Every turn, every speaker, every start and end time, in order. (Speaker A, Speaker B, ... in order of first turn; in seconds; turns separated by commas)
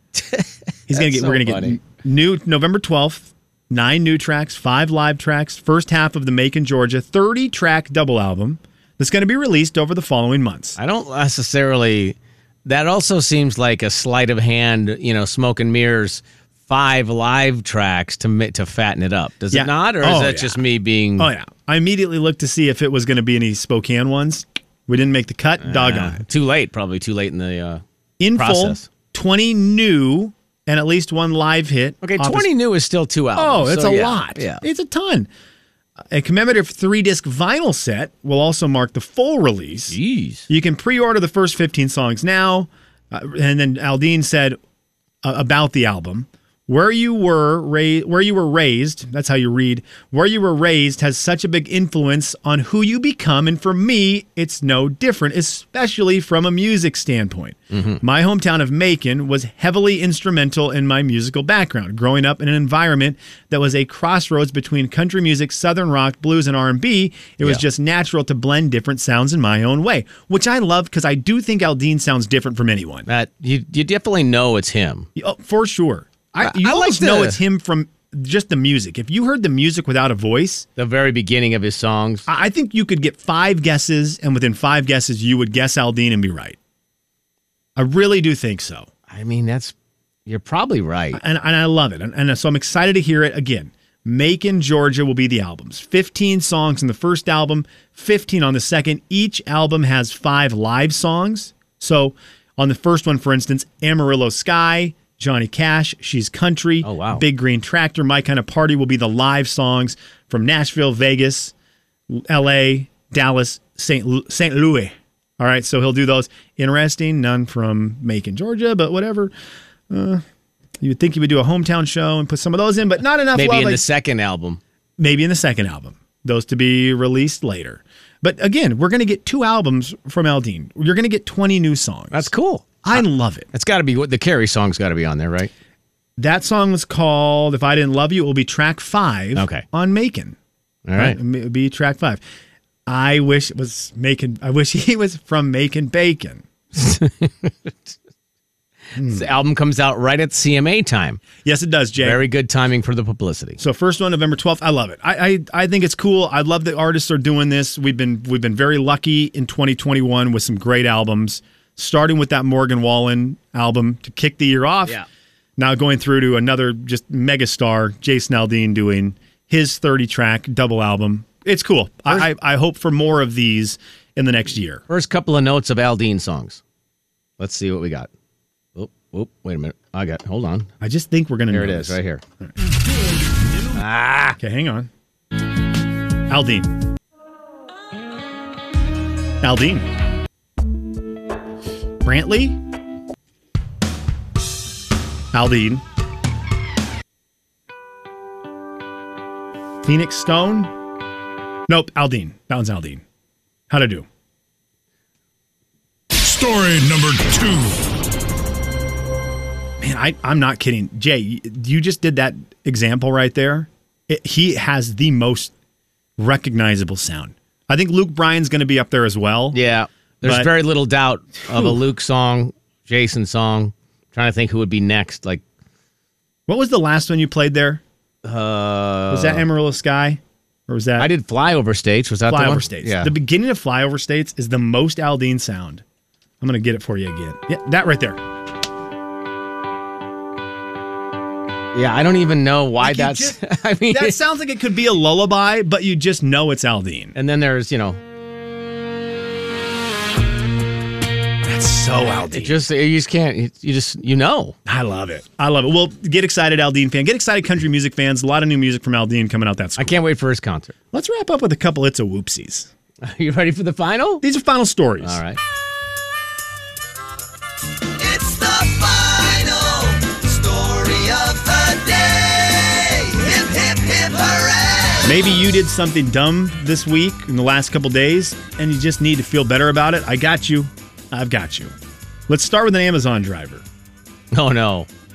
Speaker A: 0.1-1.8, Speaker B: 0.9-10.8, Speaker A: 10.8-21.3, Speaker B: 19.5-20.6, Speaker B: 21.2-26.2, Speaker A: 25.6-27.8, Speaker B: 28.2-32.5, Speaker A: 28.4-28.9, Speaker A: 32.0-34.6, Speaker B: 33.4-35.3, Speaker B: 36.1-40.0, Speaker A: 39.9-40.5, Speaker B: 40.5-44.6, Speaker B: 45.2-73.1, Speaker A: 57.7-58.0, Speaker A: 73.1-75.1, Speaker B: 75.2-80.7, Speaker A: 76.4-77.4, Speaker A: 80.8-82.3, Speaker B: 82.3-86.6, Speaker B: 87.8-88.9, Speaker A: 89.1-89.7, Speaker A: 90.3-91.2, Speaker B: 91.1-111.5, Speaker A: 106.8-107.2, Speaker B: 112.1-119.3, Speaker B: 119.9-120.2, Speaker B: 120.8-123.9, Speaker A: 123.3-124.6, Speaker B: 125.0-132.3, Speaker A: 132.1-135.5, Speaker B: 132.8-133.5, Speaker B: 136.2-140.4, Speaker A: 139.3-139.7, Speaker A: 140.9-141.2, Speaker B: 141.0-142.2, Speaker B: 142.9-146.4, Speaker A: 146.8-147.9, Speaker B: 149.0-149.3, Speaker A: 149.1-151.2, Speaker B: 151.4-152.2, Speaker A: 152.0-153.6, Speaker B: 153.6-165.0, Speaker B: 165.6-174.8, Speaker A: 174.9-176.6, Speaker A: 177.4-178.1, Speaker A: 178.8-180.7, Speaker B: 180.8-182.5, Speaker A: 181.5-182.2, Speaker A: 183.7-184.4, Speaker B: 184.4-184.9, Speaker B: 186.3-186.7, Speaker B: 189.4-189.9, Speaker B: 192.0-192.6, Speaker B: 195.3-195.8, Speaker B: 199.8-200.7, Speaker B: 201.7-203.0, Speaker B: 203.7-204.1, Speaker B: 206.2-207.8, Speaker B: 209.8-215.5, Speaker B: 216.2-219.6, Speaker A: 219.5-225.4, Speaker B: 220.2-220.5, Speaker B: 221.5-221.8, Speaker B: 226.5-227.8, Speaker A: 228.2-229.4, Speaker B: 229.1-231.1, Speaker A: 231.0-233.1, Speaker B: 232.3-235.8, Speaker B: 236.4-238.2, Speaker A: 241.7-244.2, Speaker B: 242.8-247.2, Speaker A: 247.2-248.0, Speaker B: 251.4-252.6, Speaker A: 252.3-254.6, Speaker B: 254.7-260.0, Speaker A: 259.8-260.7, Speaker B: 260.9-262.7, Speaker A: 263.0-264.2, Speaker B: 264.2-265.2, Speaker A: 265.0-265.4, Speaker C: 268.2-275.0, Speaker B: 275.0-281.7, Speaker B: 282.3-283.6, Speaker A: 284.3-284.9